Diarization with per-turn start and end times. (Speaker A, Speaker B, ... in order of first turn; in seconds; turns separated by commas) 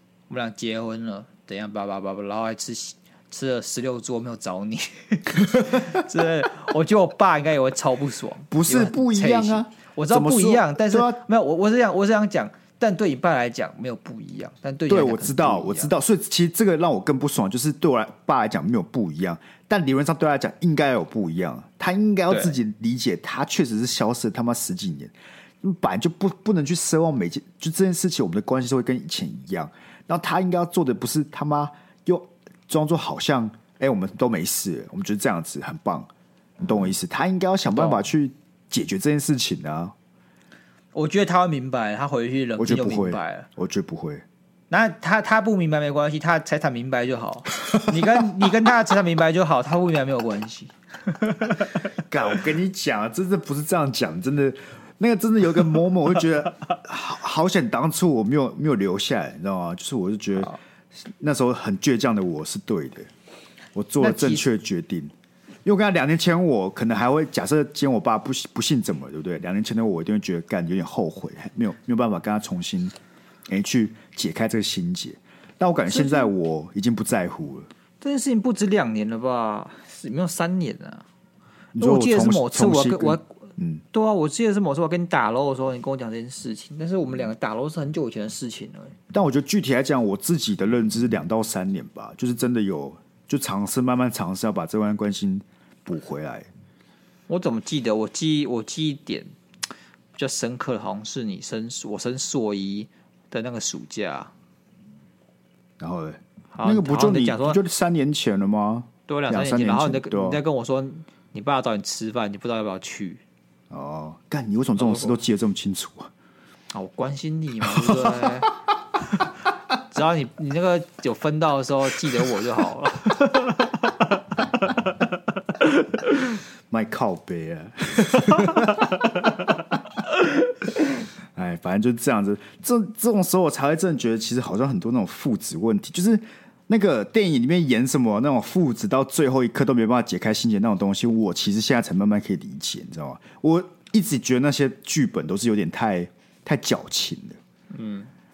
Speaker A: 0.3-15.9, Speaker B: 8.5-11.2, Speaker B: 14.9-36.1, Speaker A: 22.3-22.6, Speaker B: 36.6-40.0, Speaker A: 37.7-38.0, Speaker A: 40.9-43.5, Speaker B: 42.6-44.2, Speaker A: 44.7-51.7, Speaker B: 52.0-63.1, Speaker B: 63.7-65.1, Speaker A: 64.0-64.5, Speaker B: 65.6-73.0, Speaker B: 73.5-77.7, Speaker A: 75.9-76.3, Speaker A: 78.0-81.0, Speaker B: 81.7-83.8, Speaker A: 81.8-89.0, Speaker B: 89.1-96.5, Speaker A: 97.3-99.3, Speaker A: 100.1-104.3, Speaker B: 105.8-110.4, Speaker A: 106.5-107.6, Speaker A: 109.1-113.2, Speaker B: 113.7-116.1, Speaker A: 114.8-115.2, Speaker A: 116.7-119.3, Speaker A: 119.8-124.1, Speaker B: 126.7-129.2, Speaker A: 128.3-128.8, Speaker B: 131.3-147.4, Speaker A: 147.7-148.1